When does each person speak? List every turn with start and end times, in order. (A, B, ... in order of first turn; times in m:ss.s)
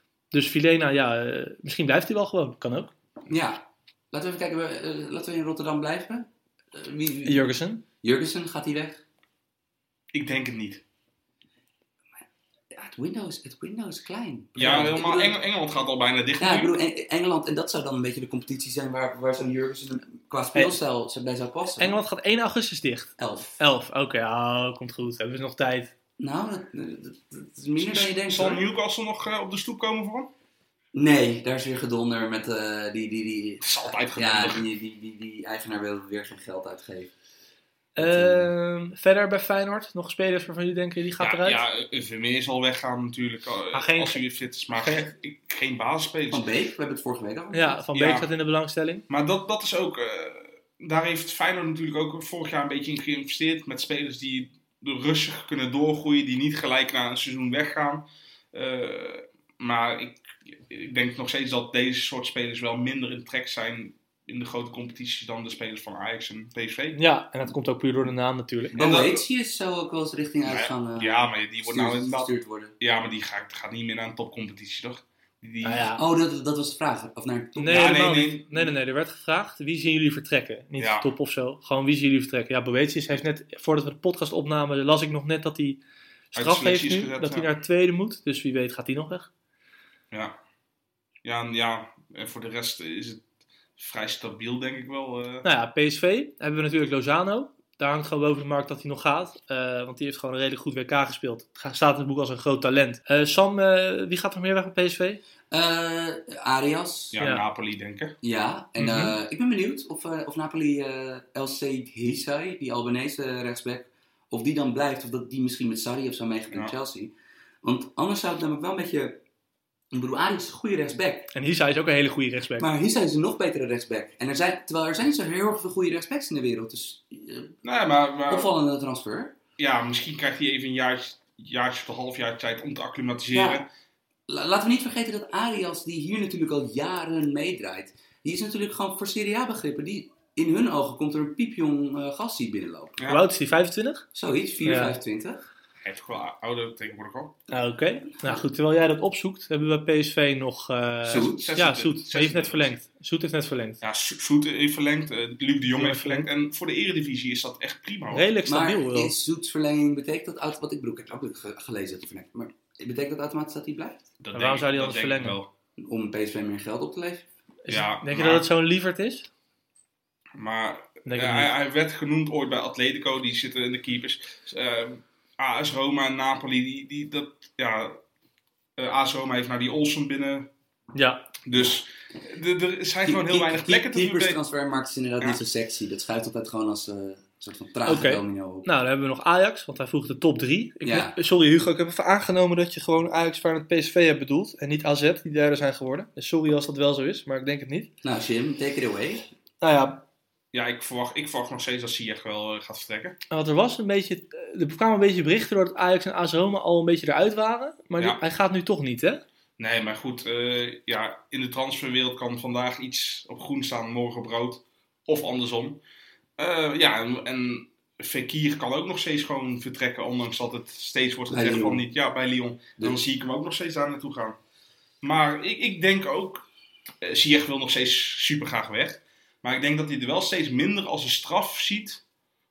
0:00.3-0:02.9 A
0:03.3-0:07.5 B
0:07.2-0:07.8 A
0:08.0-0:09.0 B
0:10.1-0:10.8 C
0:12.7-0:15.4 B
0:14.6-0:16.8 C
0:16.4-0:22.0 B
0:21.8-0:25.9 A
0:23.2-0:23.6 B
0:26.2-0:28.7 B
0:27.8-0:30.3 C
0:30.9-0:37.1 B
0:33.6-0:34.7 C
0:38.0-0:41.6 A
0:38.0-0:38.5 B
0:41.2-0:46.4 C
0:43.7-0:44.2 A
0:44.8-0:45.1 A
0:46.3-0:47.8 B
0:47.5-0:49.0 A
0:47.9-0:48.3 C
0:49.1-1:07.0 C
1:07.0-1:08.7 A
1:08.7-1:12.7 B
1:08.8-1:09.2 C
1:10.5-1:15.9 C
1:15.6-1:16.0 A
1:16.0-1:18.0 B
1:17.6-1:29.3 A
1:17.7-1:18.8 C
1:20.8-1:21.1 C
1:26.4-1:27.5 C
1:30.1-1:30.4 C
1:31.2-1:33.2 C
1:33.8-1:35.5 C
1:35.4-1:45.2 A
1:45.5-1:47.2 B
1:47.1-1:48.2 C
1:48.2-1:59.2 B
1:48.8-1:49.2 A
1:59.9-2:01.3 B
2:01.3-2:02.7 A
2:02.6-2:07.6 B
2:07.6-2:08.5 C
2:08.3-2:09.4 B
2:09.6-2:13.7 C
2:13.3-2:13.6 B
2:14.3-2:23.1 B
2:23.1-2:24.1 A
2:24.2-2:25.5 B
2:24.6-2:25.0 A
2:25.8-2:27.4 C
2:27.5-2:33.8 A
2:31.0-2:31.5 B
2:31.2-2:32.8 C
2:33.8-2:38.2 C
2:35.6-2:36.3 A
2:38.1-2:39.2 A
2:38.4-2:44.1 B
2:44.2-2:45.5 C
2:44.3-2:45.4 A
2:45.8-2:47.3 B
2:47.7-2:49.3 A
2:47.7-2:48.5 C
2:50.4-2:58.0 C
2:51.1-2:51.5 A
2:58.8-3:00.5 C
3:00.9-3:01.3 A
3:01.4-3:04.4 C
3:03.0-3:08.7 B
3:07.9-3:17.9 A
3:10.8-3:11.2 B
3:18.0-3:19.3 B
3:19.6-3:20.0 A
3:20.5-3:23.2 C
3:23.3-3:29.2 A
3:29.6-3:35.8 C
3:36.4-3:44.4 C
3:41.3-3:41.8 B
3:45.0-3:46.5 C
3:47.0-3:52.0 C